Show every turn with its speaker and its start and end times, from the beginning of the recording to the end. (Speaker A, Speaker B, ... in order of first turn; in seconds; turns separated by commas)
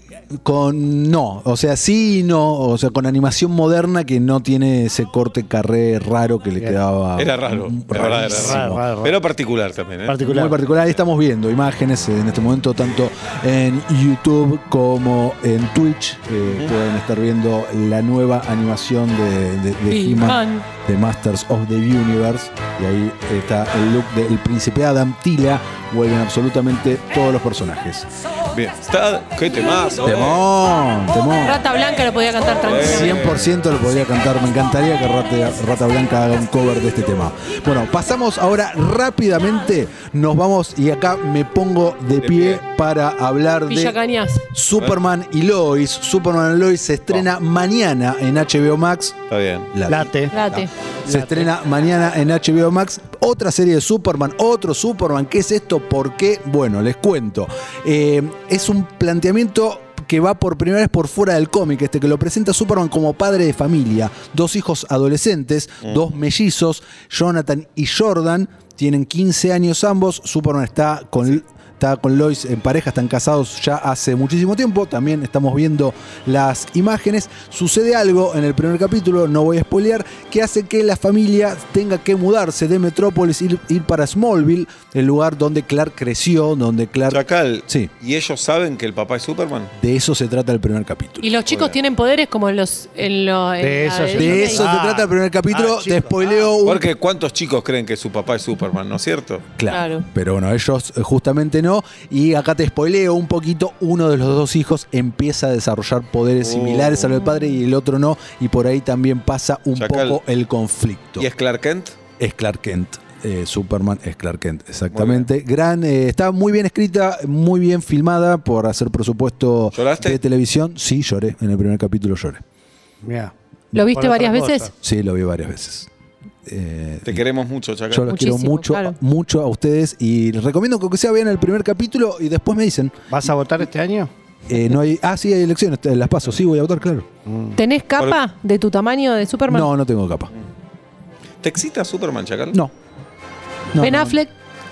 Speaker A: 0.4-8.8, Speaker B: 7.2-10.2, Speaker C: 8.2-9.2, Speaker C: 10.1-10.6, Speaker A: 10.2-28.1, Speaker B: 16.5-16.7, Speaker D: 19.9-20.7, Speaker B: 28.5-30.4, Speaker A: 30.0-31.6, Speaker D: 31.4-33.2, Speaker B: 32.6-33.5, Speaker A: 32.9-44.0, Speaker B: 42.2-42.6, Speaker D: 43.7-44.4, Speaker A: 44.5-49.2, Speaker B: 49.3-49.7, Speaker A: 49.7-87.9, Speaker C: 49.9-50.3, Speaker D: 50.3-50.7, Speaker C: 51.0-51.5, Speaker B: 65.8-66.1, Speaker B: 87.1-89.7, Speaker A: 89.8-91.3, Speaker D: 91.2-94.6, Speaker B: 91.5-91.8, Speaker C: 93.6-96.5, Speaker A: 94.2-96.9, Speaker B: 96.6-99.5, Speaker A: 99.6-111.3, Speaker D: 99.7-100.0, Speaker B: 106.4-107.1, Speaker B: 109.8-110.2, Speaker B: 111.2-112.0, Speaker A: 112.2-122.4, Speaker B: 114.9-115.3, Speaker B: 119.7-120.2, Speaker C: 123.0-123.3, Speaker D: 123.7-124.7, Speaker C: 123.9-124.7, Speaker A: 124.8-125.9, Speaker A: 126.5-127.2, Speaker B: 127.0-128.1, Speaker A: 127.9-133.3, Speaker D: 128.1-129.0, Speaker C: 133.1-134.1, Speaker A: 134.5-137.1, Speaker C: 137.3-137.6, Speaker D: 137.6-139.7, Speaker A: 139.5-140.3, Speaker B: 141.4-142.6, Speaker A: 143.7-144.2, Speaker D: 143.8-144.3